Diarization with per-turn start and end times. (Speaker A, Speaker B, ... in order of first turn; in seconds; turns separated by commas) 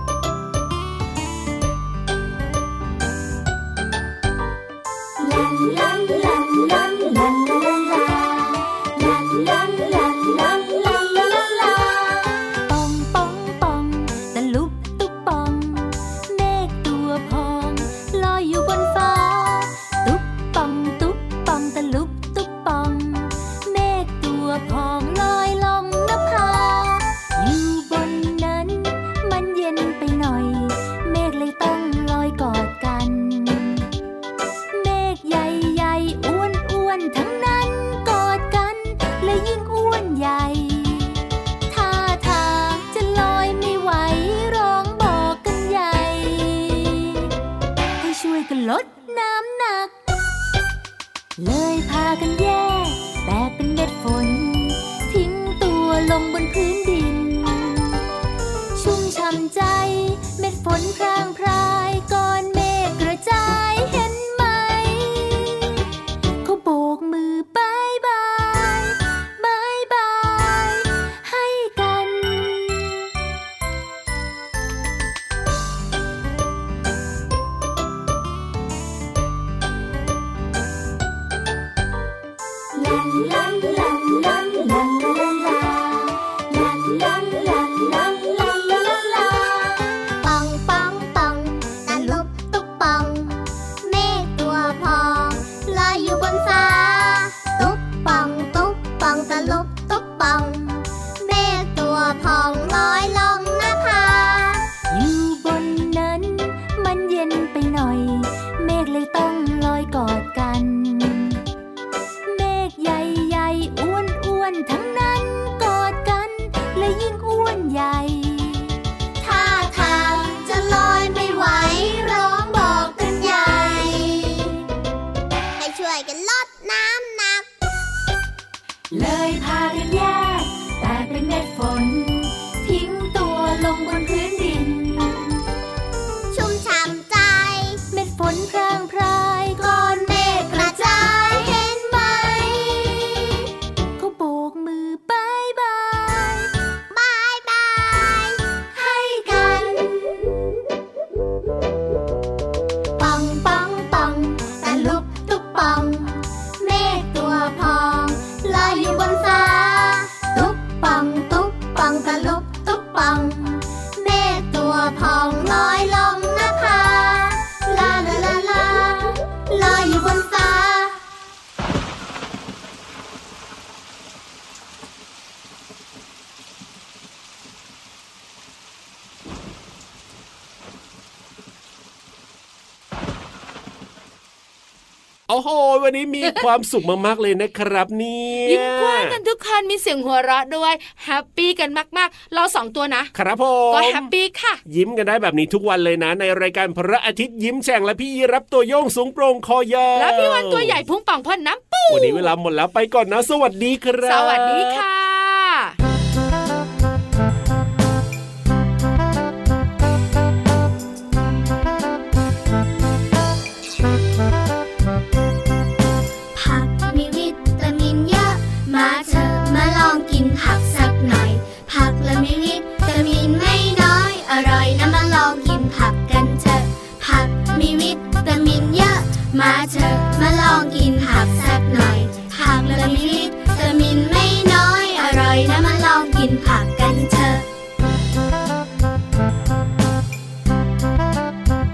Speaker A: 5.2-33.9, Speaker A: 34.7-41.2, Speaker A: 41.7-47.3, Speaker A: 48.0-50.0, Speaker A: 51.4-58.0, Speaker A: 58.7-65.8, Speaker A: 66.4-72.9, Speaker A: 82.7-89.8, Speaker B: 90.2-104.7, Speaker A: 91.9-92.2, Speaker A: 104.9-111.4, Speaker A: 112.2-118.7, Speaker B: 119.2-124.5, Speaker B: 125.6-127.5, Speaker A: 128.9-135.4, Speaker B: 136.3-137.8, Speaker A: 137.9-141.7, Speaker B: 140.5-143.0, Speaker A: 144.0-146.5, Speaker B: 146.9-149.7, Speaker A: 148.8-149.7, Speaker B: 153.0-171.0, Speaker C: 185.3-189.2, Speaker D: 188.4-193.1, Speaker C: 193.1-194.1, Speaker D: 193.7-194.6, Speaker C: 194.7-200.8, Speaker D: 199.9-202.3, Speaker C: 201.9-204.8, Speaker D: 204.0-205.8, Speaker B: 216.3-237.4